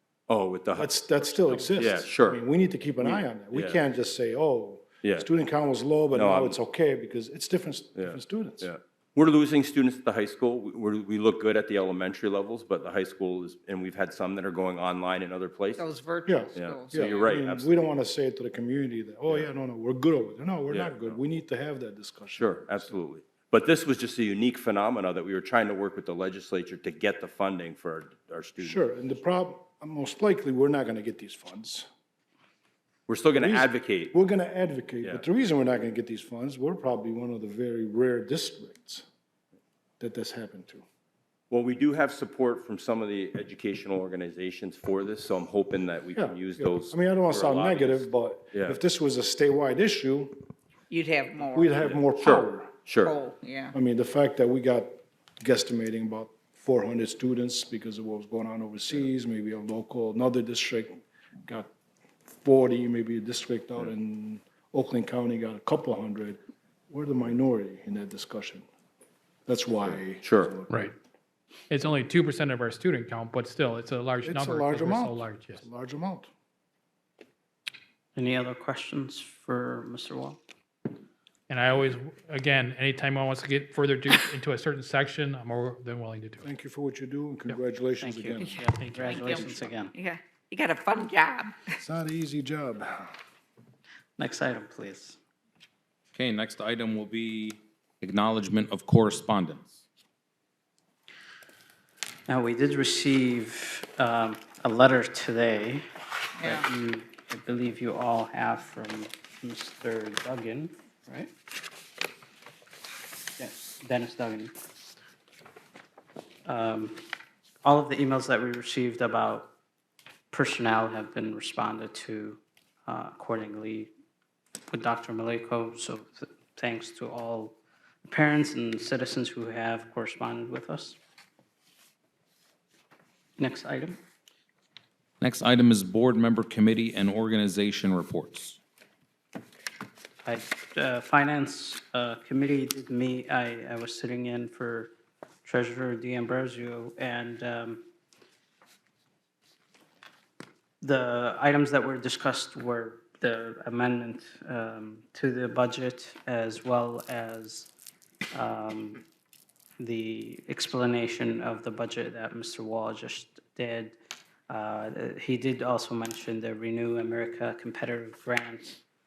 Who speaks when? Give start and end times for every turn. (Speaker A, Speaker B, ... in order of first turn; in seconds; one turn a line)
Speaker A: 0.3-2.4
Speaker B: 0.7-8.7
Speaker A: 3.0-3.8
Speaker A: 5.0-5.3
Speaker A: 6.1-6.6
Speaker A: 8.0-15.8
Speaker C: 15.8-17.4
Speaker B: 16.3-22.9
Speaker A: 16.5-17.7
Speaker A: 20.7-21.2
Speaker A: 22.4-28.9
Speaker B: 28.6-31.9
Speaker A: 33.1-34.1
Speaker B: 33.4-39.0
Speaker B: 40.0-40.8
Speaker A: 41.5-48.8
Speaker B: 46.1-50.4
Speaker C: 50.9-51.7
Speaker B: 51.5-52.7
Speaker A: 51.8-53.1
Speaker C: 53.0-53.7
Speaker B: 53.7-61.7
Speaker B: 62.4-66.4
Speaker B: 66.9-68.7
Speaker B: 69.5-70.7
Speaker A: 70.1-70.5
Speaker D: 71.7-75.6
Speaker B: 74.2-76.3
Speaker E: 78.2-80.4
Speaker D: 81.5-86.4
Speaker B: 86.4-88.7
Speaker E: 88.0-89.9
Speaker C: 88.4-91.7
Speaker B: 91.8-93.1
Speaker E: 94.2-95.2
Speaker F: 99.1-99.7
Speaker E: 102.3-105.8
Speaker C: 106.4-106.7
Speaker E: 106.4-111.3
Speaker E: 113.4-114.5
Speaker E: 116.5-117.0
Speaker E: 117.6-119.5
Speaker E: 120.3-123.9
Speaker E: 124.7-131.0
Speaker E: 133.4-134.0
Speaker F: 136.1-137.2
Speaker F: 138.2-138.6
Speaker E: 140.2-144.9
Speaker E: 145.4-147.8
Speaker E: 150.8-157.7
Speaker E: 158.3-159.0
Speaker E: 159.8-163.9
Speaker E: 164.5-168.8